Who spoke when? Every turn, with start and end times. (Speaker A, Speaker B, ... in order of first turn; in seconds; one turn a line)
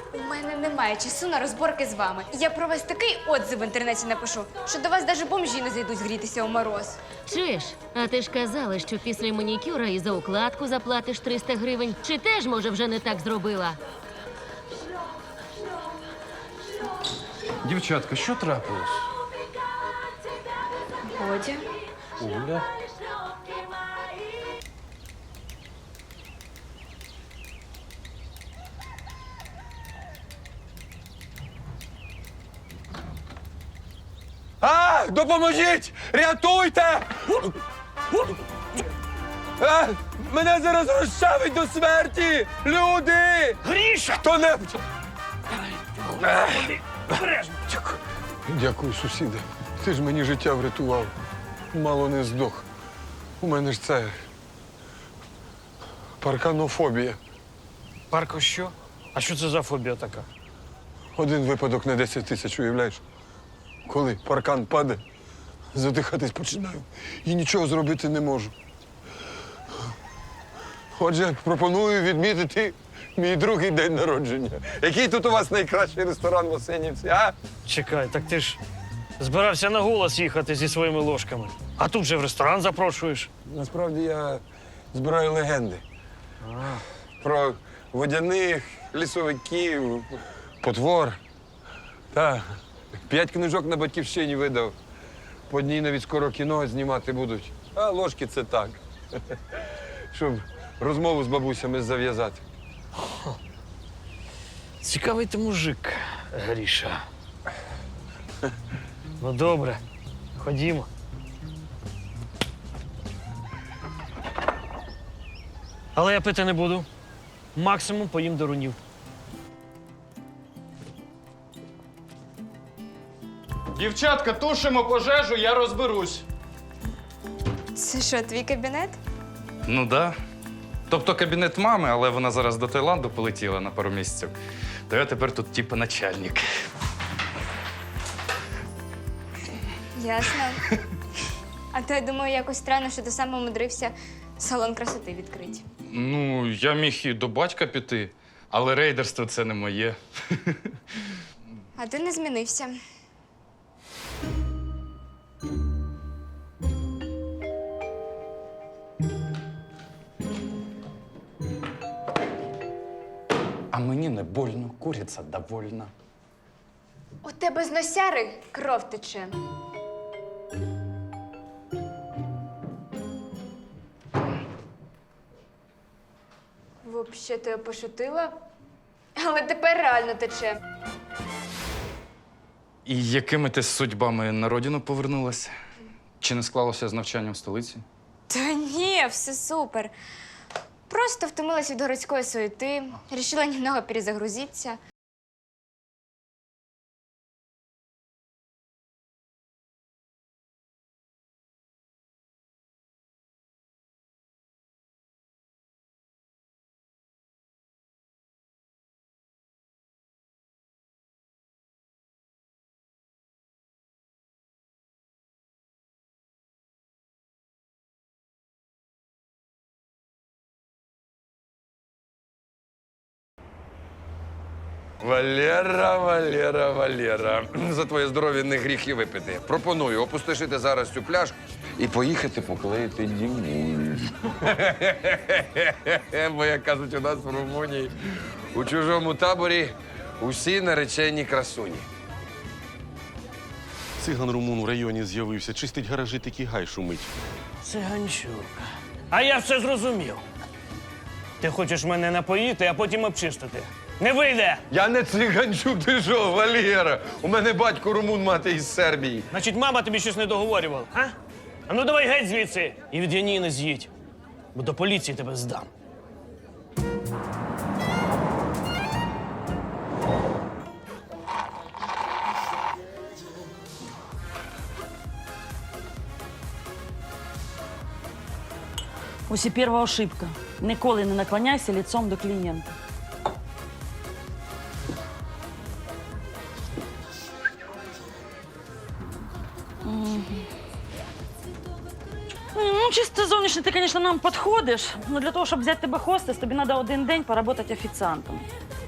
Speaker A: 0.1-7.0
Speaker B: 7.3-13.8
Speaker C: 17.6-19.1
Speaker A: 21.1-21.6
Speaker C: 22.2-22.7
Speaker D: 34.6-37.5
Speaker D: 39.6-44.8
Speaker E: 43.6-44.2
Speaker E: 46.0-47.7
Speaker D: 46.2-46.8
Speaker D: 48.5-51.1
Speaker D: 51.7-52.6
Speaker D: 53.4-54.1
Speaker D: 56.2-57.2
Speaker E: 58.1-60.3
Speaker D: 61.1-63.0
Speaker D: 63.8-65.0
Speaker D: 65.7-68.5
Speaker D: 70.9-77.3
Speaker E: 77.7-78.6
Speaker E: 79.2-83.3
Speaker D: 83.4-85.8
Speaker E: 86.4-86.8
Speaker D: 87.2-91.2
Speaker D: 92.1-94.8
Speaker D: 95.5-98.8
Speaker D: 99.3-102.4
Speaker E: 104.8-107.0
Speaker E: 109.2-109.8
Speaker E: 110.3-110.9
Speaker E: 115.9-116.9
Speaker E: 117.5-118.8
Speaker C: 123.7-126.2
Speaker A: 127.8-129.0
Speaker C: 129.7-130.2
Speaker C: 130.9-134.3
Speaker C: 134.9-136.5
Speaker A: 139.9-140.6
Speaker A: 141.7-145.6
Speaker C: 145.9-150.6
Speaker A: 151.8-152.7
Speaker C: 163.7-165.9
Speaker A: 167.2-169.3
Speaker A: 176.8-178.3
Speaker A: 179.2-180.6
Speaker C: 182.8-185.5
Speaker C: 186.2-187.8
Speaker A: 188.3-189.9
Speaker A: 190.9-194.8
Speaker D: 225.0-237.9
Speaker D: 238.5-241.9
Speaker F: 244.0-247.1
Speaker E: 247.6-250.2
Speaker E: 251.4-254.6
Speaker D: 254.7-259.3
Speaker E: 259.3-261.1
Speaker E: 261.7-263.9
Speaker E: 264.5-265.7
Speaker G: 279.3-282.7
Speaker G: 289.8-290.5
Speaker G: 292.5-298.5